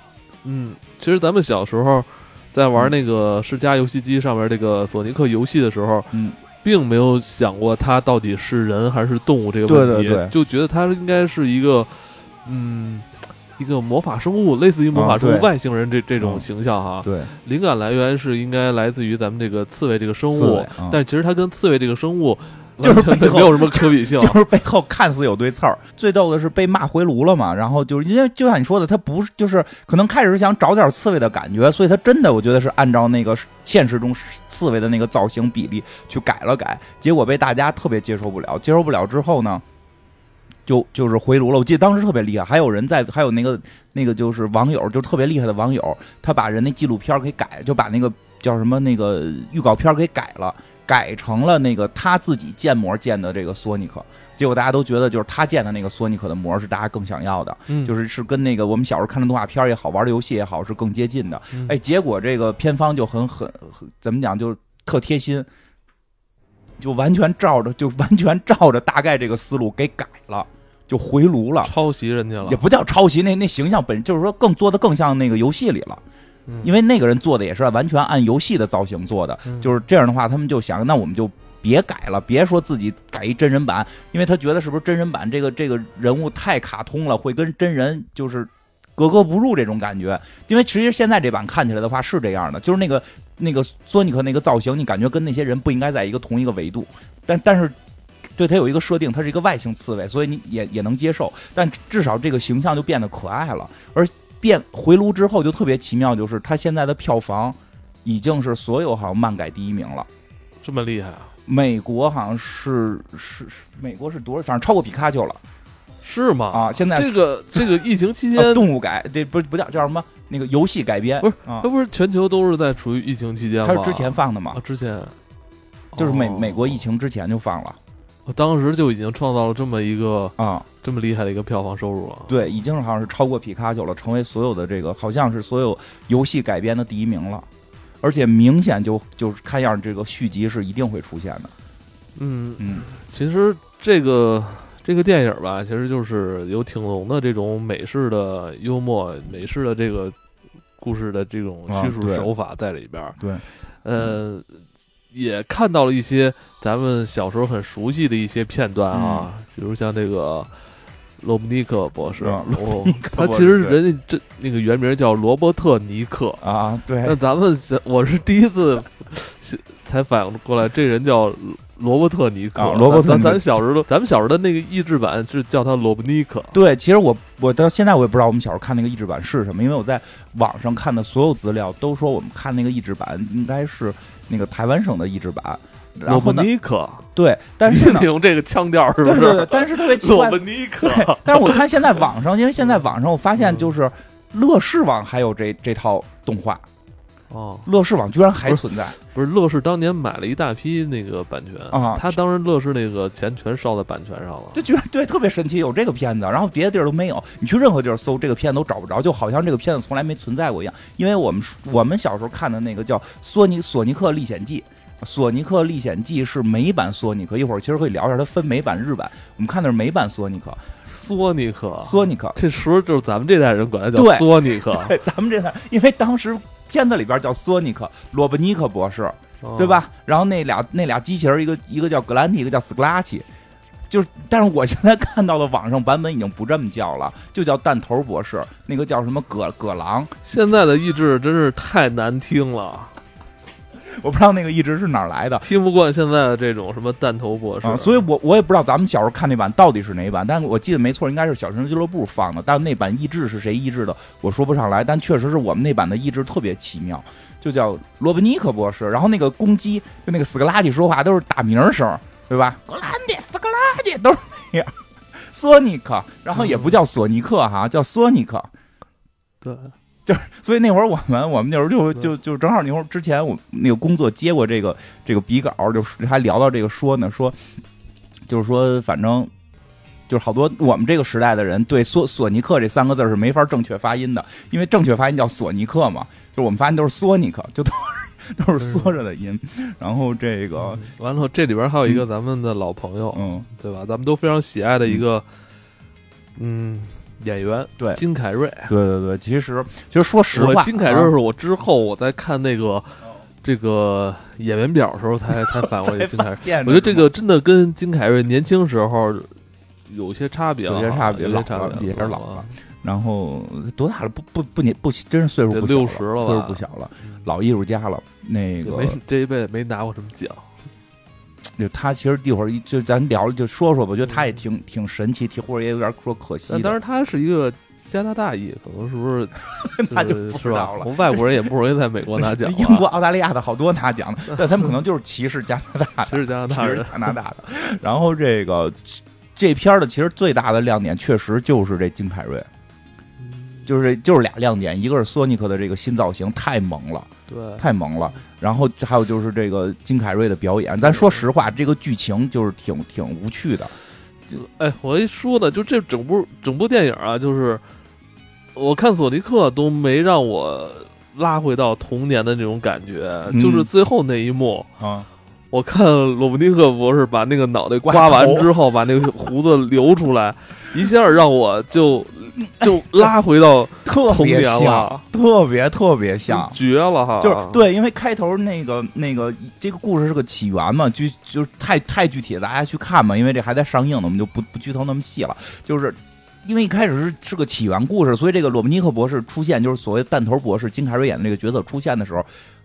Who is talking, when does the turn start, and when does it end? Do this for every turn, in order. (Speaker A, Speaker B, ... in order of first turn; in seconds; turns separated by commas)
Speaker A: 0.4-24.4, Speaker B: 6.1-6.4, Speaker B: 9.7-10.3, Speaker B: 14.9-15.5, Speaker B: 16.2-16.4, Speaker B: 17.0-17.3, Speaker B: 20.3-21.0, Speaker B: 22.8-39.6, Speaker B: 40.6-65.5, Speaker B: 66.8-71.7, Speaker A: 71.6-72.6, Speaker B: 72.4-76.0, Speaker B: 76.6-97.7, Speaker A: 79.5-79.8, Speaker B: 98.4-110.1, Speaker A: 110.6-111.3, Speaker B: 111.5-115.4, Speaker A: 116.0-118.7, Speaker B: 116.5-117.7, Speaker B: 118.3-121.7, Speaker A: 121.2-125.1, Speaker B: 123.6-124.6, Speaker A: 125.9-126.8, Speaker B: 126.0-127.8, Speaker A: 128.3-132.4, Speaker B: 130.4-130.6, Speaker B: 132.3-137.5, Speaker B: 138.0-141.5, Speaker A: 142.2-150.2, Speaker B: 142.6-142.9, Speaker A: 150.8-153.2, Speaker B: 151.7-152.3, Speaker B: 153.2-153.4, Speaker A: 153.8-160.5, Speaker B: 158.9-159.3, Speaker A: 161.2-166.4, Speaker B: 162.2-163.8, Speaker B: 166.4-167.2, Speaker A: 167.0-176.6, Speaker B: 172.6-173.6, Speaker B: 176.5-186.5, Speaker A: 186.1-187.1, Speaker B: 187.1-188.1, Speaker A: 187.7-192.0, Speaker B: 189.0-196.6, Speaker A: 193.4-193.7, Speaker A: 197.3-197.7, Speaker B: 197.7-199.0, Speaker A: 198.5-204.7, Speaker B: 201.7-202.2, Speaker B: 204.5-220.6, Speaker A: 220.8-224.9, Speaker B: 221.8-222.4, Speaker B: 223.9-233.2, Speaker A: 229.4-229.8, Speaker B: 233.9-240.1, Speaker A: 240.2-242.9, Speaker B: 243.9-245.4, Speaker A: 245.4-248.0, Speaker B: 247.6-268.5, Speaker A: 266.3-266.8, Speaker A: 269.4-269.7, Speaker B: 270.1-277.4, Speaker B: 278.3-279.3, Speaker B: 280.1-290.8, Speaker A: 288.6-289.0, Speaker A: 290.6-295.2, Speaker B: 293.1-293.4, Speaker A: 296.4-298.7, Speaker B: 298.7-301.1, Speaker A: 300.3-309.3, Speaker B: 305.3-307.1, Speaker A: 309.9-312.6, Speaker B: 310.7-319.0, Speaker A: 315.5-317.3, Speaker A: 318.6-320.5, Speaker B: 321.6-326.8, Speaker A: 326.5-332.9, Speaker B: 329.6-330.9, Speaker B: 332.2-342.5, Speaker A: 336.0-337.1, Speaker A: 343.2-343.7, Speaker B: 343.6-353.7, Speaker A: 347.3-347.6, Speaker A: 350.9-351.2, Speaker A: 354.3-357.6, Speaker A: 358.5-364.7, Speaker B: 363.3-363.7, Speaker B: 364.8-365.1, Speaker A: 365.5-375.0, Speaker B: 367.8-368.5, Speaker B: 372.6-373.1, Speaker B: 373.8-376.6, Speaker A: 376.3-377.6, Speaker B: 377.2-392.3